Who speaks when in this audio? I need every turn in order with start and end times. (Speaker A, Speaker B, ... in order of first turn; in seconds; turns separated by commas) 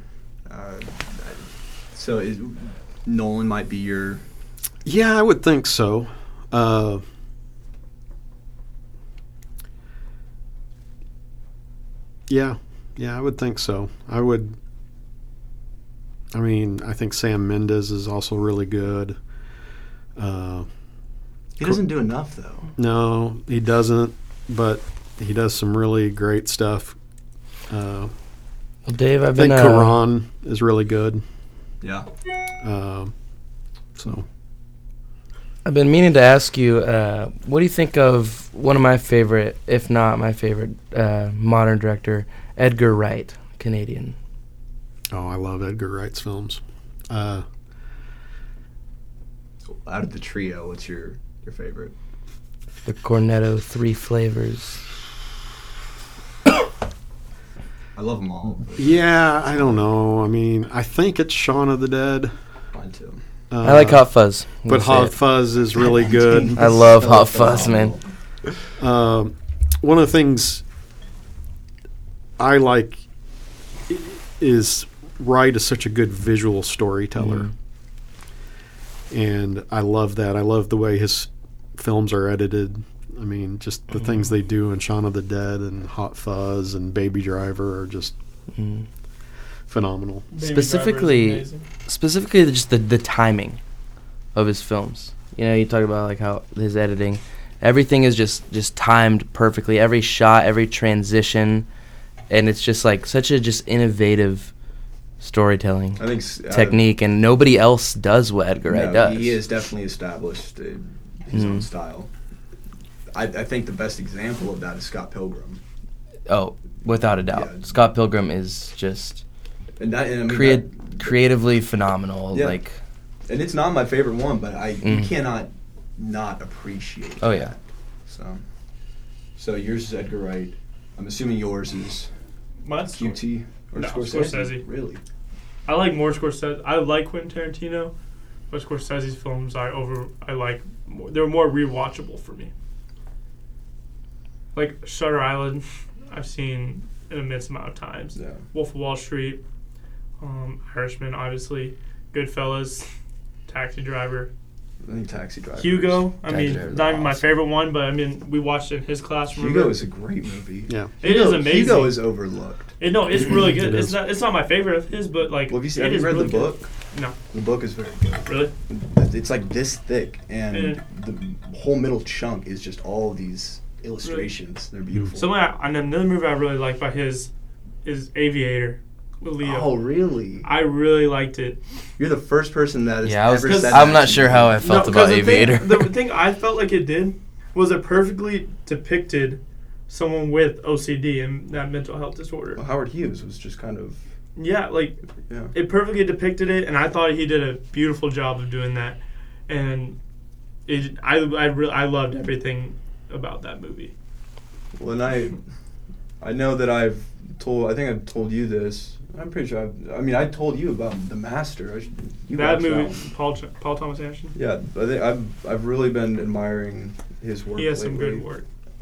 Speaker A: 0.5-4.2, Speaker B: 4.8-7.0, Speaker B: 12.3-14.6, Speaker B: 16.3-19.2, Speaker B: 20.2-20.7, Speaker A: 21.6-22.7, Speaker B: 22.8-27.0, Speaker B: 27.7-28.1, Speaker C: 28.9-30.0, Speaker B: 29.4-31.2, Speaker A: 31.8-32.1, Speaker B: 32.6-33.1, Speaker B: 34.0-34.2, Speaker C: 35.6-44.2, Speaker B: 45.1-47.5, Speaker A: 49.7-51.9, Speaker C: 52.9-54.8, Speaker A: 58.0-59.0, Speaker B: 58.8-62.3, Speaker A: 62.7-63.2, Speaker B: 63.5-64.1, Speaker C: 63.6-65.2, Speaker B: 64.7-67.0, Speaker A: 65.8-68.0, Speaker C: 66.5-68.0, Speaker B: 68.8-70.6, Speaker B: 72.4-73.0, Speaker B: 73.9-77.5, Speaker B: 79.1-88.1, Speaker C: 88.5-88.9, Speaker B: 89.7-90.3, Speaker D: 90.3-91.7, Speaker C: 90.4-93.6, Speaker C: 94.3-101.7, Speaker C: 102.3-104.5, Speaker C: 105.2-109.4, Speaker A: 106.0-106.8, Speaker A: 108.7-112.1, Speaker C: 111.3-111.7, Speaker A: 113.1-115.6, Speaker C: 116.3-119.2, Speaker A: 117.3-117.7, Speaker A: 119.8-121.2, Speaker C: 120.3-122.8, Speaker A: 122.3-122.6, Speaker A: 123.3-128.4, Speaker C: 124.8-125.1, Speaker C: 127.2-127.5, Speaker A: 129.4-132.1, Speaker D: 132.6-133.2, Speaker A: 132.9-135.0, Speaker D: 133.8-134.7, Speaker D: 135.7-137.9, Speaker D: 138.5-142.5, Speaker D: 144.5-149.4, Speaker D: 150.2-152.9, Speaker D: 153.5-154.3, Speaker A: 154.8-156.1, Speaker D: 155.6-159.8, Speaker C: 156.3-157.2, Speaker A: 159.3-162.7, Speaker D: 161.0-162.0, Speaker D: 162.8-167.2, Speaker B: 163.4-164.0, Speaker A: 165.5-166.7, Speaker A: 167.3-175.3, Speaker D: 168.3-168.5, Speaker D: 170.5-170.8, Speaker D: 175.2-177.3, Speaker D: 177.8-179.8, Speaker A: 179.4-180.5, Speaker D: 180.4-181.6, Speaker A: 182.0-184.6, Speaker C: 183.0-185.9, Speaker D: 183.4-192.6, Speaker A: 192.6-194.0, Speaker D: 194.4-195.0, Speaker D: 195.5-200.0, Speaker D: 200.7-203.9, Speaker A: 204.8-205.4, Speaker A: 206.2-213.1, Speaker D: 212.3-214.3, Speaker A: 214.3-218.3, Speaker D: 217.6-218.4